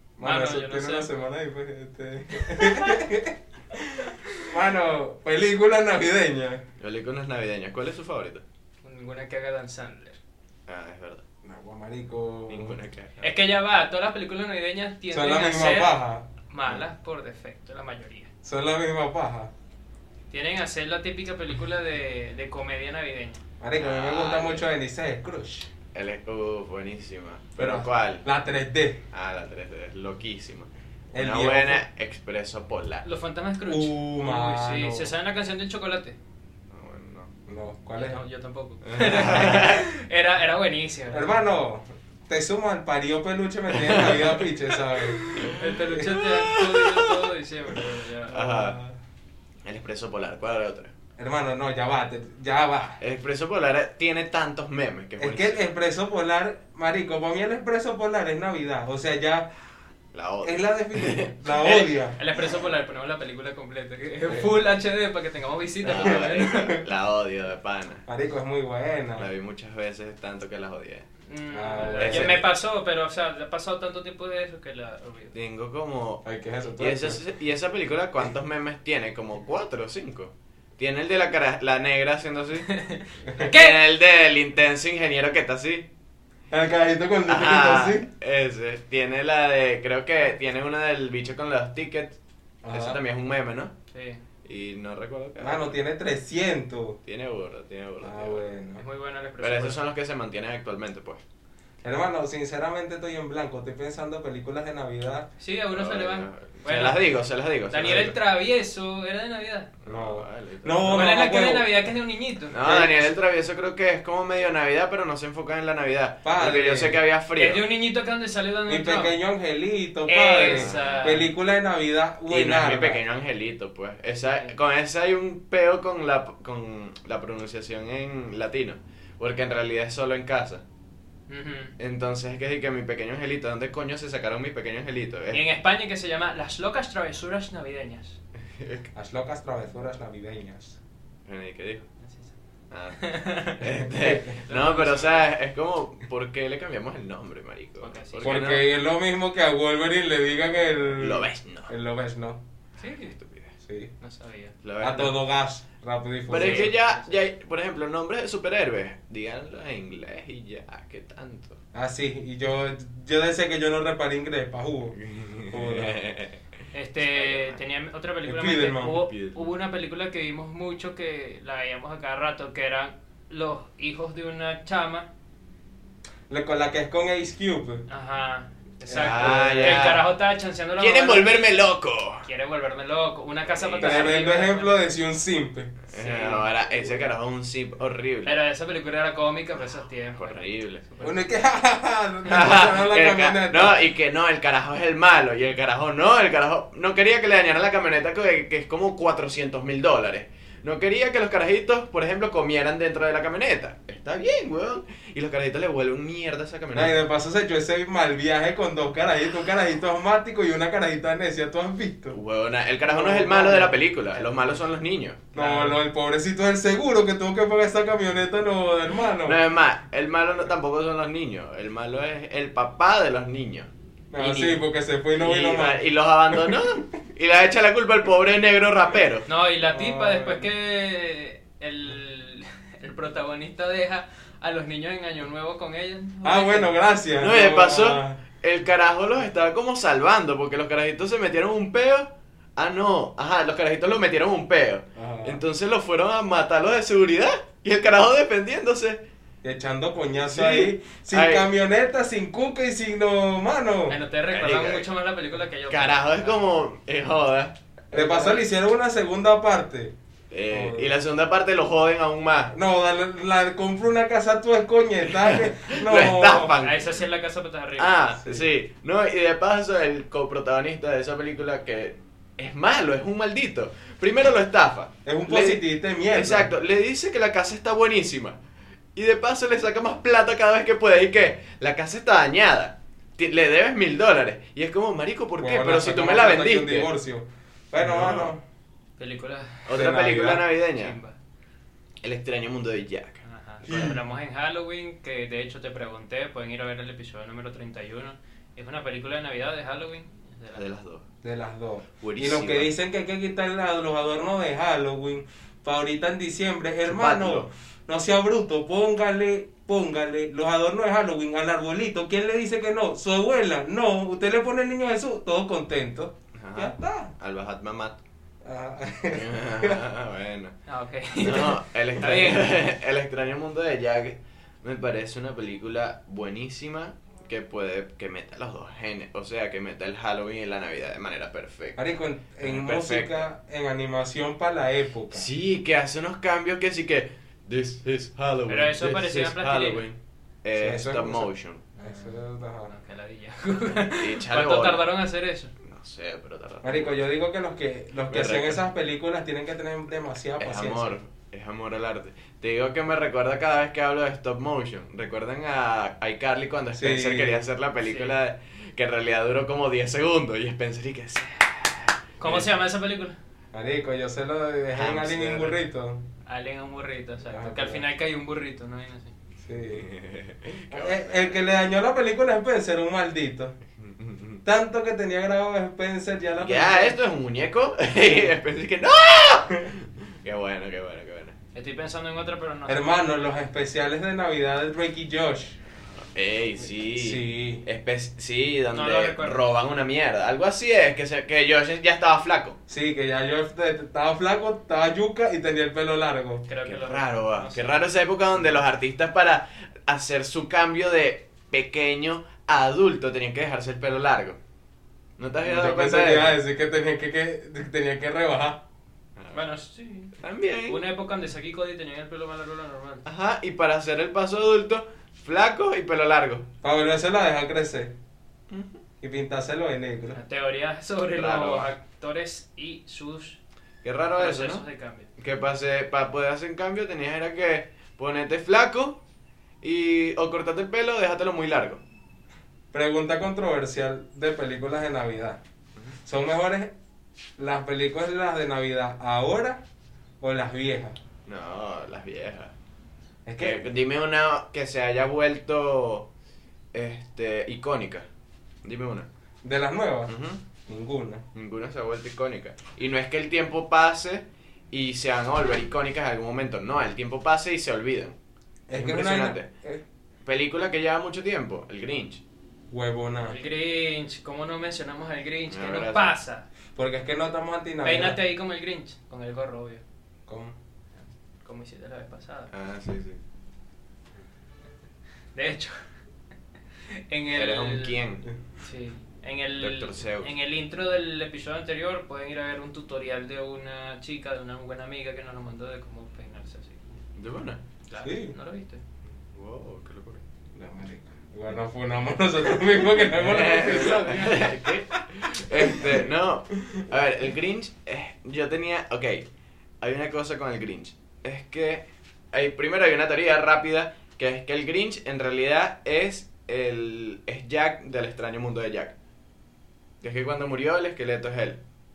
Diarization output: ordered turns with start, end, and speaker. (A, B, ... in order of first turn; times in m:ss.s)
0:00.2-0:03.8 A
0:00.2-0:01.1 B
0:04.4-0:06.6 A
0:06.8-0:08.4 C
0:08.8-0:10.2 B
0:10.7-0:11.2 C
0:11.4-0:12.8 A
0:12.5-0:13.3 C
0:13.2-0:18.3 B
0:15.1-0:16.2 A
0:18.4-0:19.5 A
0:20.3-0:23.4 B
0:23.6-0:25.7 A
0:23.8-0:24.7 C
0:25.9-0:28.2 C
0:27.6-0:29.0 A
0:29.1-0:33.0 C
0:31.1-0:31.8 A
0:33.0-0:36.2 B
0:33.6-0:35.1 A
0:36.7-0:37.3 C
0:37.5-0:38.2 A
0:38.0-0:41.4 B
0:38.8-0:39.9 C
0:41.1-0:45.2 A
0:43.7-0:47.2 C
0:45.5-0:48.4 B
0:48.3-0:48.8 C
0:48.3-0:49.0 A
0:49.6-0:50.9 C
0:51.2-0:53.0 A
0:53.0-0:55.6 C
0:55.2-0:59.5 A
1:00.1-1:01.3 C
1:00.4-1:02.2 A
1:01.5-1:06.8 B
1:05.8-1:08.0 C
1:05.9-1:06.8 A
1:08.0-1:09.3 A
1:09.2-1:11.0 C
1:11.2-1:15.3 B
1:11.5-1:12.4 A
1:12.0-1:12.4 C
1:15.3-1:16.3 C
1:16.2-1:17.2 A
1:16.8-1:22.8 C
1:22.7-1:23.8 B
1:23.4-1:25.9 C
1:26.5-1:28.1 A
1:27.3-1:32.2 C
1:32.6-1:33.0 A
1:32.7-1:33.7 C
1:33.9-1:34.2 B
1:34.4-1:35.8 C
1:35.4-1:37.0 A
1:37.0-1:38.5 C
1:38.0-1:38.8 A
1:38.8-1:39.8 B
1:39.4-1:41.2 C
1:41.8-1:45.3 A
1:45.4-1:47.0 B
1:45.7-1:48.1 C
1:47.7-1:49.7 B
1:49.8-1:51.1 C
1:49.8-1:51.7 A
1:50.9-1:52.6 B
1:52.5-1:57.6 C
1:52.6-1:53.1 A
1:56.2-1:57.0 A
1:57.4-1:59.1 B
1:58.7-2:03.0 A
2:00.1-2:01.3 B
2:00.4-2:01.1 C
2:02.3-2:10.6 C
2:11.3-2:11.7 B
2:11.8-2:15.4 C
2:15.3-2:18.2 B
2:18.6-2:18.9 C
2:18.9-2:20.8 A
2:21.2-2:21.9 C
2:22.0-2:22.3 B
2:22.7-2:28.6 C
2:23.0-2:23.6 B
2:24.3-2:25.3 B
2:27.8-2:28.5 B
2:28.2-2:32.4 A
2:30.9-2:31.7 C
2:32.8-2:33.2 B
2:32.8-2:33.5 C
2:33.6-2:33.9 A
2:34.0-2:34.5 B
2:34.6-2:35.2 C
2:34.8-2:36.7 A
2:36.3-2:41.6 C
2:36.3-2:37.1 B
2:41.7-2:45.0 A
2:44.9-2:47.6 C
2:45.5-2:46.0 A
2:46.7-2:55.1 B
2:48.2-2:49.0 A
2:49.0-2:49.5 C
2:56.3-2:57.8 A
2:57.9-3:01.4 B
2:58.9-2:59.9 A
2:58.9-3:00.1 C
3:00.8-3:02.3 C
3:02.2-3:04.8 B
3:03.5-3:04.2 C
3:03.8-3:05.7 A
3:05.9-3:08.4 C
3:05.9-3:06.5 B
3:08.2-3:11.3 B
3:10.1-3:10.8 C
3:11.0-3:13.8 A
3:12.2-3:27.0 C
3:26.7-3:32.2 A
3:32.1-3:35.7 C
3:32.8-3:34.3 A
3:35.3-3:39.4 A
3:39.2-3:44.6 C
3:44.1-3:46.7 A
3:45.1-3:49.3 C
3:49.3-3:56.7 B
3:49.7-3:50.5 A
3:56.2-3:58.2 A
3:57.2-4:09.0 C
4:04.9-4:05.4 A
4:09.4-4:14.0 A
4:10.3-4:11.5 C
4:13.9-4:16.4 B
4:14.3-4:14.9 C
4:15.7-4:18.4 C
4:17.9-4:19.9 A
4:20.3-4:22.5 C
4:20.5-4:20.9 A
4:22.5-4:26.6 A
4:25.1-4:27.0 C
4:26.6-4:28.0 B
4:27.8-4:35.6 C
4:35.0-4:36.5 A
4:36.1-4:38.4 C
4:38.9-4:46.9 C
4:45.4-4:48.4 A
4:47.8-4:48.3 C
4:49.0-4:49.7 B
4:49.7-4:51.0 C
4:49.7-4:50.5 A
4:50.7-4:51.2 B
4:52.0-4:54.0 C
4:53.2-5:00.6 B
4:53.7-4:53.9 A
5:00.5-5:01.0 C
5:01.2-5:17.1 A
5:02.0-5:02.7 C
5:06.8-5:07.5 C
5:16.3-5:18.0 C
5:18.4-5:19.8 A
5:19.1-5:20.6 C
5:20.7-5:22.4 B
5:21.2-5:31.8 C
5:31.8-5:35.3 A
5:32.4-5:33.2 C
5:35.1-5:41.6 C
5:38.5-5:39.8 B
5:40.6-5:42.7 A
5:41.8-5:45.5 B
5:43.9-5:44.8 C
5:45.6-5:47.0 C
5:46.6-5:51.0 A
5:48.1-5:48.6 C
5:50.4-6:02.4 C
5:56.7-5:57.4 A
5:57.8-5:58.2 B
6:02.2-6:03.2 B
6:03.5-6:06.0 A
6:04.7-6:05.6 C
6:06.2-6:09.1 B
6:07.3-6:07.8 A
6:09.4-6:09.9 A
6:09.7-6:11.4 C
6:10.7-6:13.6 A
6:13.8-6:14.4 C
6:14.4-6:17.0 A
6:16.4-6:21.4 C
6:21.5-6:23.0 B
6:22.7-6:25.6 A
6:26.0-6:32.6 C
6:27.0-6:27.6 A
6:28.7-6:29.4 B
6:32.7-6:36.4 A
6:36.5-6:37.6 B
6:36.6-6:44.4 C
6:45.2-6:46.4 C
6:45.4-6:48.6 A
6:49.2-6:49.4 C
6:49.3-6:50.1 B
6:50.2-6:50.8 C
6:50.7-6:53.0 B
6:53.0-6:56.4 C
6:56.6-6:57.9 A
6:58.5-6:58.8 C
6:59.0-7:00.2 A
7:00.1-7:03.4 B
7:01.2-7:01.7 C
7:03.8-7:04.6 C
7:04.2-7:05.1 B
7:05.2-7:09.0 C
7:09.6-7:11.8 C
7:12.7-7:15.4 A
7:16.0-7:16.7 A
7:17.4-7:19.6 A
7:20.2-7:21.0 A
7:21.2-7:22.5 C
7:23.2-7:23.6 A
7:23.4-7:26.1 C
7:26.7-7:28.0 C
7:28.6-7:29.1 C
7:29.4-7:30.1 A
7:30.1-7:30.4 C
7:30.7-7:31.2 A
7:31.3-7:38.2 C
7:38.7-7:39.8 A
7:38.7-7:39.5 C
7:40.2-7:42.2 C
7:42.7-7:43.4 A
7:43.3-7:46.4 B
7:45.5-7:46.1 C
7:46.8-7:48.2 A
7:47.8-7:49.8 B
7:50.3-7:50.5 A
7:51.4-7:52.5 B
7:52.5-7:53.2 C
7:55.3-7:55.7 B
7:56.9-7:58.0 B
7:57.3-7:58.3 C
7:58.6-8:07.0 B
7:59.6-8:00.3 C
8:07.2-8:07.6 C
8:07.9-8:08.8 B
8:08.0-8:08.3 A
8:09.0-8:10.2 C
8:10.5-8:16.0 A
8:13.0-8:19.2 C
8:13.6-8:14.4 B
8:19.8-8:28.9 C
8:30.0-8:31.6 C